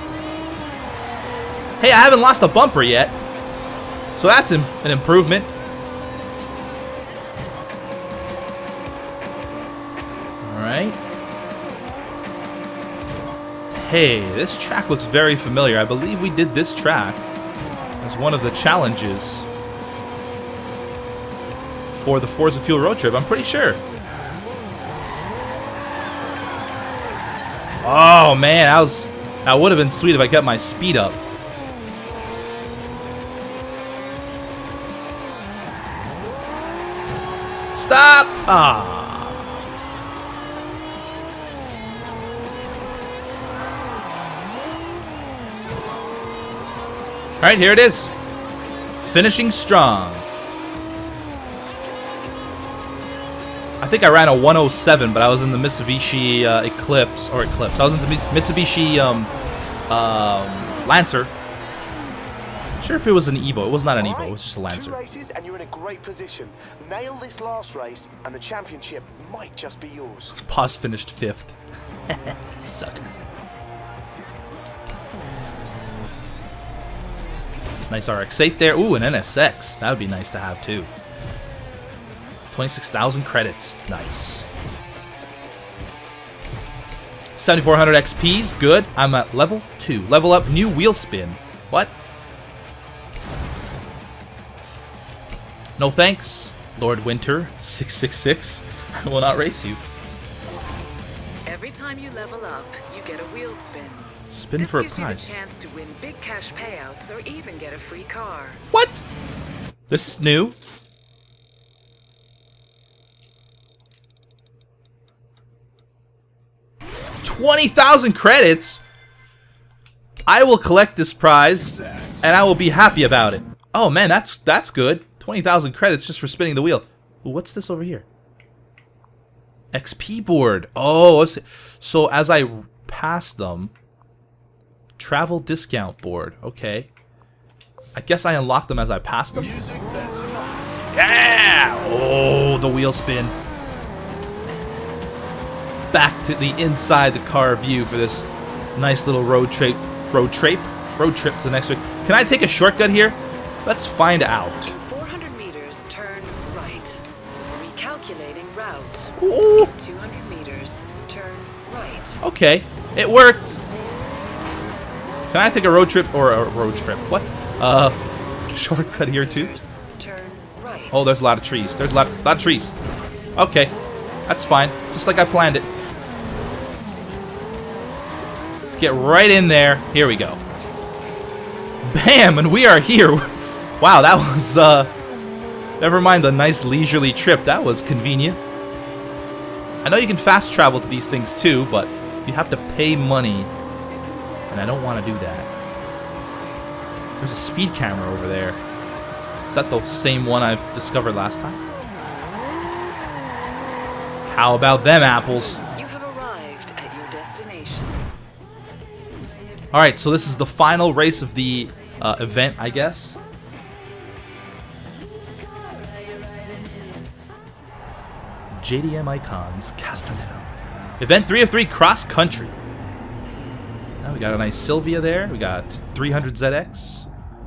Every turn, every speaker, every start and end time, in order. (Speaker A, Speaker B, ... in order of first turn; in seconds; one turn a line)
Speaker A: 1.8-3.1
Speaker A: 4.2-5.5
Speaker A: 10.4-11.0
Speaker A: 13.8-17.2
Speaker A: 18.0-19.5
Speaker A: 21.9-23.8
Speaker A: 27.8-31.2
Speaker A: 37.7-39.5
Speaker A: 47.4-48.1
Speaker A: 49.0-50.2
Speaker A: 53.8-59.3
Speaker A: 59.9-61.3
Speaker A: 62.8-65.0
Speaker B: 64.0-70.4
Speaker A: 70.4-71.6
Speaker A: 72.1-73.1
Speaker A: 77.9-80.9
Speaker A: 82.5-84.5
Speaker A: 87.3-91.9
Speaker A: 95.8-99.8
Speaker C: 101.5-108.6
Speaker A: 104.3-105.3
Speaker A: 108.7-109.0
Speaker A: 109.9-110.6
Speaker A: 117.2-118.8
Speaker A: 120.3-128.1
Speaker A: 129.7-133.7
Speaker A: 135.0-136.9
Speaker A: 137.9-139.7
Speaker A: 140.9-143.3
Speaker A: 145.9-154.7
Speaker C: 154.6-162.2
Speaker A: 159.2-159.7
Speaker A: 162.2-163.6
Speaker A: 165.3-168.0
Speaker C: 168.5-171.1
Speaker A: 168.5-169.5
Speaker A: 170.9-172.7
Speaker A: 173.3-173.7
Speaker A: 174.3-175.7
Speaker A: 178.6-180.4
Speaker A: 181.8-184.9
Speaker A: 185.8-188.4
Speaker A: 189.8-193.5
Speaker A: 194.5-195.5
Speaker A: 197.2-198.6
Speaker A: 199.5-201.6
Speaker A: 204.3-205.6
Speaker C: 205.7-208.0
Speaker A: 209.7-213.2
Speaker A: 218.5-220.5
Speaker A: 221.0-222.5
Speaker A: 224.0-227.1